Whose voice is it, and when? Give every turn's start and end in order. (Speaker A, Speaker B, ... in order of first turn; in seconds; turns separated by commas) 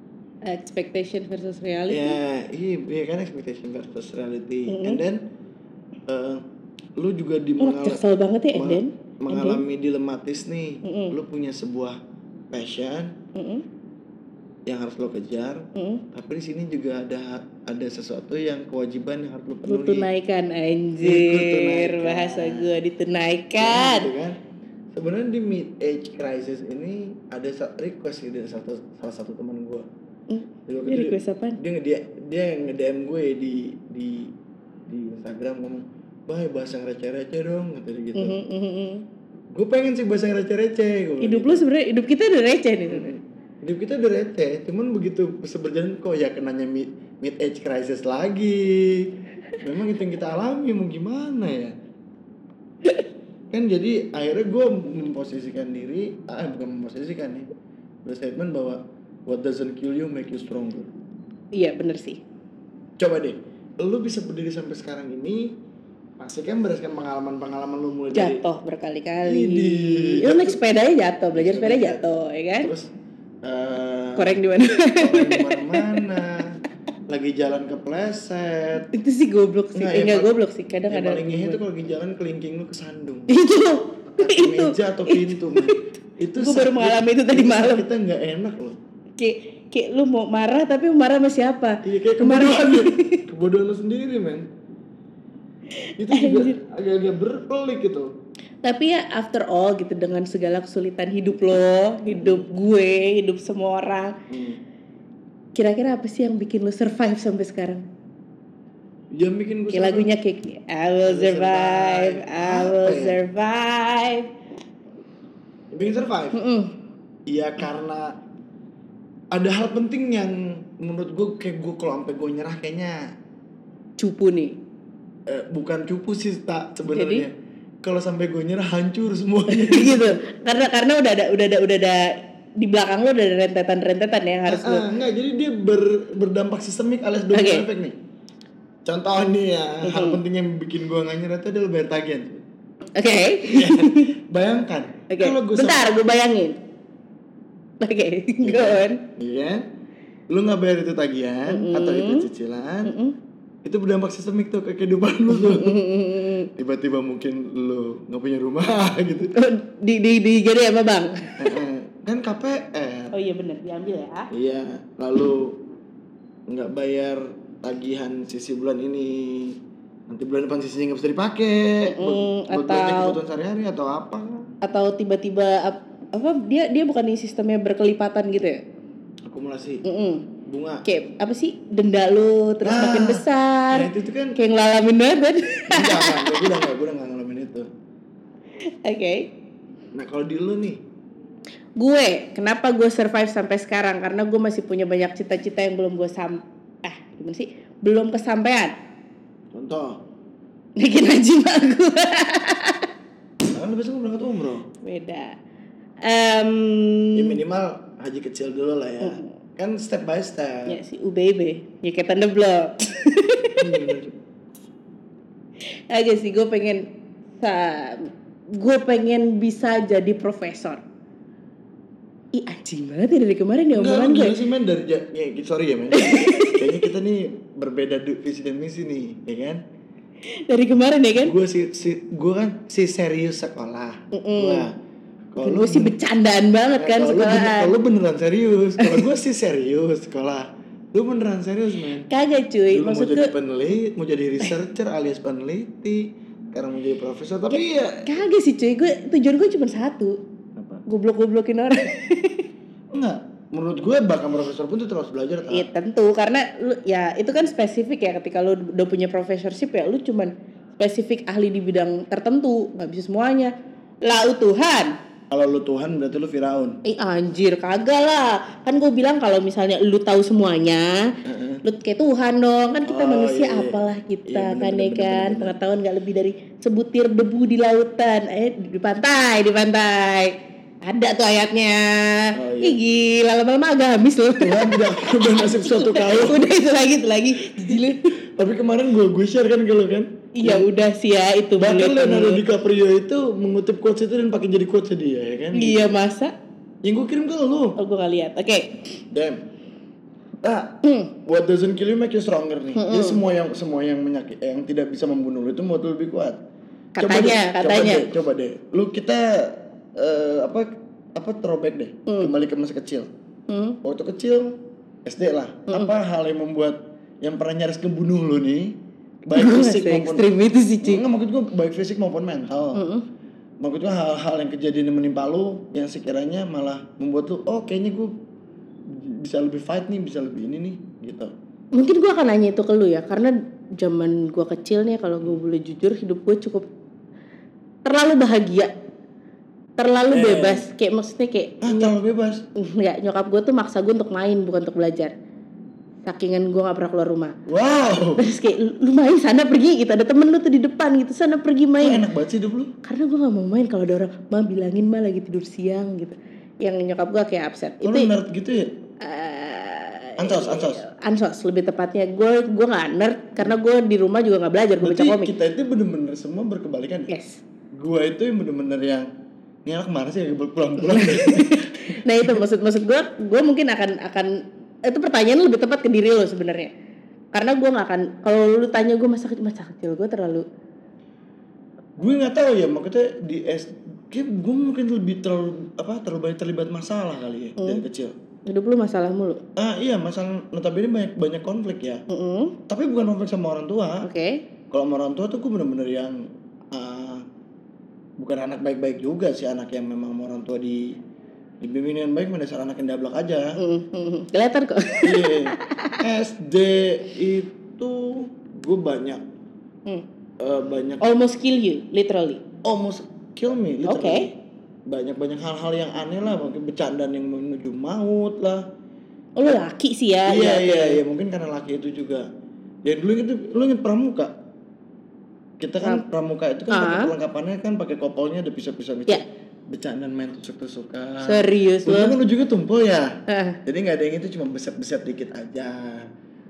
Speaker A: 0.5-2.2, Speaker B: 1.9-5.2, Speaker A: 4.7-5.0, Speaker B: 6.1-6.4, Speaker B: 7.0-8.0, Speaker A: 7.6-9.6, Speaker B: 8.5-12.0, Speaker A: 10.8-11.2, Speaker B: 12.5-13.2, Speaker A: 13.3-13.6, Speaker B: 14.7-20.1, Speaker A: 15.8-16.0, Speaker A: 19.7-24.1, Speaker B: 21.0-22.7, Speaker B: 23.6-24.4, Speaker B: 24.9-29.9, Speaker A: 30.3-31.6, Speaker B: 30.7-34.3, Speaker B: 34.9-38.4, Speaker A: 38.1-39.0, Speaker B: 39.5-41.6, Speaker A: 41.2-43.1, Speaker B: 42.9-51.7, Speaker B: 53.5-57.5, Speaker B: 58.0-60.9, Speaker A: 61.5-62.2, Speaker B: 63.0-65.5, Speaker B: 66.2-68.4, Speaker A: 68.1-72.7, Speaker B: 69.2-70.6, Speaker B: 71.3-72.0, Speaker B: 72.6-72.9, Speaker B: 73.4-74.4, Speaker A: 74.2-76.0, Speaker B: 75.0-78.9, Speaker A: 78.9-81.6, Speaker B: 79.8-80.3, Speaker B: 80.9-83.3, Speaker A: 83.3-87.9, Speaker B: 84.1-88.8, Speaker A: 89.2-93.2, Speaker B: 91.8-94.5, Speaker A: 95.8-96.6, Speaker B: 96.0-98.1, Speaker A: 98.6-104.2, Speaker B: 102.1-102.5, Speaker B: 104.3-104.6, Speaker A: 105.5-107.9, Speaker B: 109.1-110.1, Speaker A: 109.7-114.3, Speaker B: 111.0-113.2, Speaker B: 115.7-116.4, Speaker A: 116.3-116.7, Speaker B: 117.3-118.2, Speaker B: 119.3-123.2, Speaker A: 124.0-124.6, Speaker B: 125.3-130.2, Speaker A: 126.9-127.3, Speaker A: 129.5-134.9, Speaker B: 134.5-138.0, Speaker A: 137.3-137.7, Speaker B: 138.8-142.4, Speaker A: 139.8-140.2, Speaker A: 143.0-144.1, Speaker B: 143.4-145.9, Speaker A: 145.1-146.6, Speaker A: 147.8-149.0, Speaker B: 148.4-149.6, Speaker B: 150.3-152.9, Speaker A: 151.5-152.3, Speaker A: 152.8-153.2, Speaker B: 153.7-155.8, Speaker A: 155.3-156.5, Speaker B: 156.6-159.3, Speaker A: 159.3-161.6, Speaker B: 161.4-163.1, Speaker A: 163.1-164.3, Speaker B: 164.3-165.6, Speaker B: 166.5-174.5, Speaker A: 171.8-173.2, Speaker A: 174.6-178.6, Speaker B: 179.3-179.8, Speaker A: 179.8-180.3, Speaker B: 180.5-180.8, Speaker A: 180.8-186.7, Speaker B: 182.6-184.4, Speaker B: 185.7-187.7, Speaker A: 188.8-189.3, Speaker B: 189.9-190.8, Speaker A: 191.8-198.7, Speaker B: 199.5-200.0, Speaker A: 200.8-202.9, Speaker B: 203.5-204.7, Speaker A: 204.8-205.4, Speaker A: 206.0-207.4, Speaker B: 207.2-210.8, Speaker A: 209.0-209.3, Speaker A: 210.7-213.7, Speaker B: 213.6-214.2, Speaker A: 215.9-216.9, Speaker A: 217.4-220.8, Speaker A: 222.3-224.4, Speaker B: 223.7-229.6, Speaker A: 225.9-226.9, Speaker A: 230.3-231.3, Speaker B: 231.2-234.8, Speaker A: 234.1-234.7, Speaker B: 235.3-235.9, Speaker A: 235.4-237.7, Speaker B: 236.8-242.1, Speaker A: 238.8-239.1, Speaker A: 242.1-243.3, Speaker B: 242.7-248.2, Speaker A: 247.5-250.2, Speaker B: 250.6-250.8, Speaker A: 250.9-252.5, Speaker B: 252.9-255.7, Speaker A: 255.5-263.5, Speaker A: 264.0-265.0, Speaker B: 265.3-266.8, Speaker A: 266.9-271.1, Speaker B: 271.2-271.6, Speaker A: 271.6-288.1, Speaker B: 272.9-275.6, Speaker B: 282.3-282.8, Speaker B: 284.4-286.5, Speaker B: 287.5-290.7, Speaker A: 290.4-292.4, Speaker B: 291.6-296.0, Speaker A: 295.5-296.3, Speaker B: 296.8-297.8, Speaker A: 297.8-298.9, Speaker B: 299.1-299.5, Speaker B: 300.4-306.4, Speaker A: 300.8-301.1, Speaker A: 302.8-303.2, Speaker A: 307.0-308.1, Speaker B: 307.0-313.1, Speaker A: 312.1-312.3, Speaker A: 313.5-313.8, Speaker B: 313.8-320.3, Speaker A: 319.4-321.0, Speaker B: 320.8-322.8, Speaker A: 322.7-323.0, Speaker B: 323.6-328.1, Speaker B: 328.9-331.3, Speaker A: 331.7-336.7, Speaker A: 337.9-338.7, Speaker A: 339.8-341.9, Speaker B: 340.1-340.6, Speaker B: 341.6-342.5, Speaker A: 342.6-345.1, Speaker A: 346.1-347.4, Speaker B: 347.5-348.2, Speaker A: 348.2-352.0, Speaker B: 351.8-352.7, Speaker A: 352.8-358.1, Speaker B: 357.8-358.7, Speaker A: 359.0-365.3, Speaker B: 360.2-360.8, Speaker B: 364.8-367.1, Speaker A: 367.1-367.4, Speaker B: 367.7-369.1, Speaker B: 369.7-372.4, Speaker A: 370.8-376.7, Speaker A: 377.3-380.4, Speaker B: 382.0-388.1, Speaker A: 388.5-389.4, Speaker B: 389.6-392.0, Speaker A: 392.1-392.6, Speaker B: 392.7-394.1, Speaker A: 394.0-394.4, Speaker B: 394.7-397.2, Speaker B: 398.2-401.0, Speaker B: 401.6-403.6, Speaker A: 403.6-406.0, Speaker B: 405.0-409.2, Speaker B: 410.4-411.0, Speaker A: 411.0-412.4, Speaker B: 412.6-414.4, Speaker A: 413.9-414.3, Speaker B: 414.9-418.7, Speaker A: 419.4-421.0, Speaker B: 420.2-422.3, Speaker B: 422.9-424.3, Speaker B: 425.6-436.1, Speaker A: 426.7-427.1, Speaker A: 431.2-432.1, Speaker A: 433.3-433.6